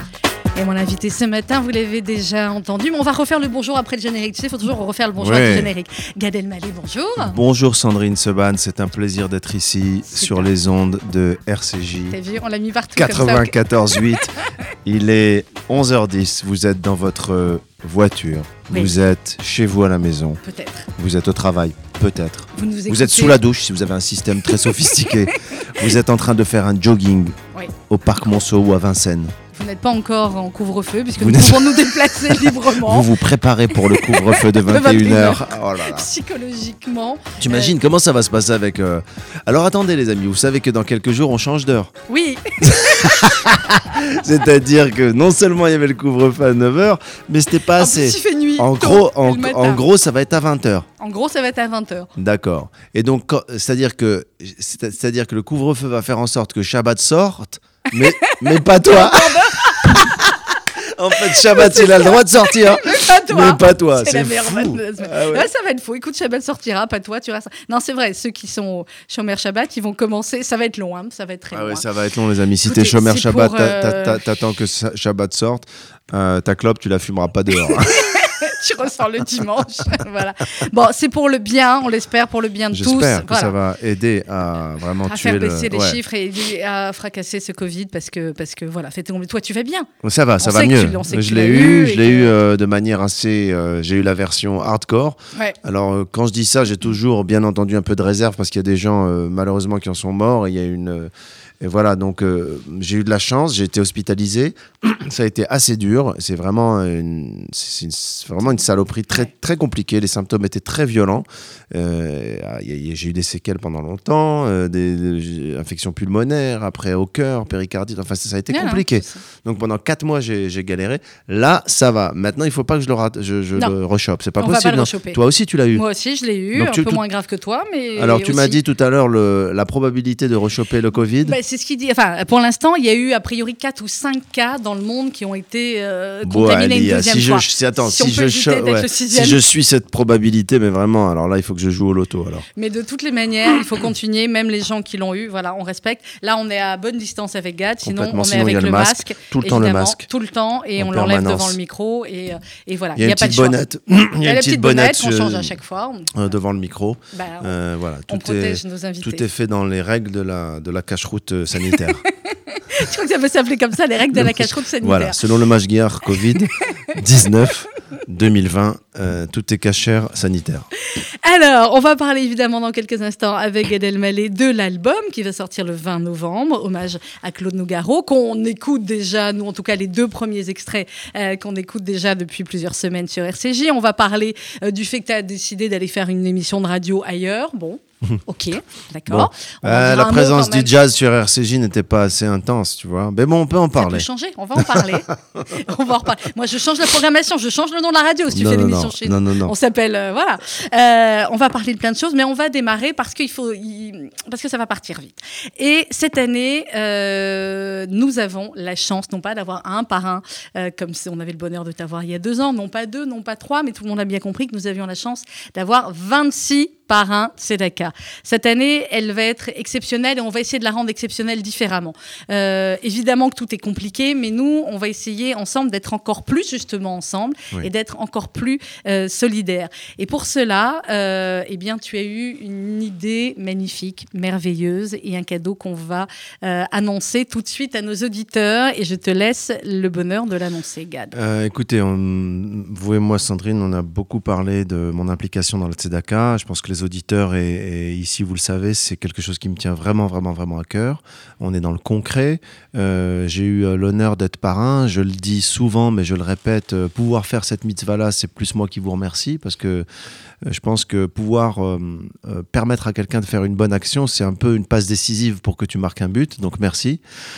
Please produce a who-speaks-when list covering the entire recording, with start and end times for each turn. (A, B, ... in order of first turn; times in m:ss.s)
0:00.6-0:07.4 A
0:05.2-0:05.7 B
0:07.2-0:12.2 B
0:10.1-0:10.5 A
0:12.1-0:13.6 A
0:13.0-0:20.4 B
0:18.7-0:19.0 A
0:20.4-0:20.9 A
0:21.0-0:27.4 B
0:22.6-0:23.4 A
0:25.3-0:25.6 A
0:27.9-0:29.4 B
0:29.5-0:33.1 A
0:31.2-0:36.1 B
0:33.8-0:37.7 A
0:37.4-0:41.9 B
0:42.1-0:43.3 A
0:42.6-0:50.9 B
0:47.8-0:49.8 A
0:51.0-0:52.1 A
0:52.2-1:05.5 B
0:57.9-1:00.3 A
1:01.1-1:11.8 A
1:11.5-1:18.2 B
1:12.6-1:14.2 A
1:17.6-1:23.5 A
1:22.7-1:26.0 B
1:25.1-1:29.9 A
1:30.0-1:41.1 B
1:30.4-1:32.3 A
1:41.6-2:05.8 B
1:58.5-1:59.2 A
2:04.4-2:05.2 A
2:05.7-2:08.6 A
2:06.5-2:07.0 B
2:08.0-2:11.4 B
2:11.2-2:19.4 A
2:16.2-2:22.4 B
2:22.6-2:33.6 A
2:27.8-2:30.1 B
2:30.8-2:31.6 B
2:33.0-2:35.6 B
2:34.2-2:36.1 A
2:36.1-2:42.0 B
2:37.1-2:37.6 A
2:38.1-2:39.3 A
2:41.6-2:45.2 A
2:44.1-2:50.7 B
2:50.9-3:10.7 A
3:09.1-3:14.9 B
3:13.8-4:01.1 A
3:18.3-3:19.5 B
4:01.1-4:19.9 B
4:20.4-4:27.0 B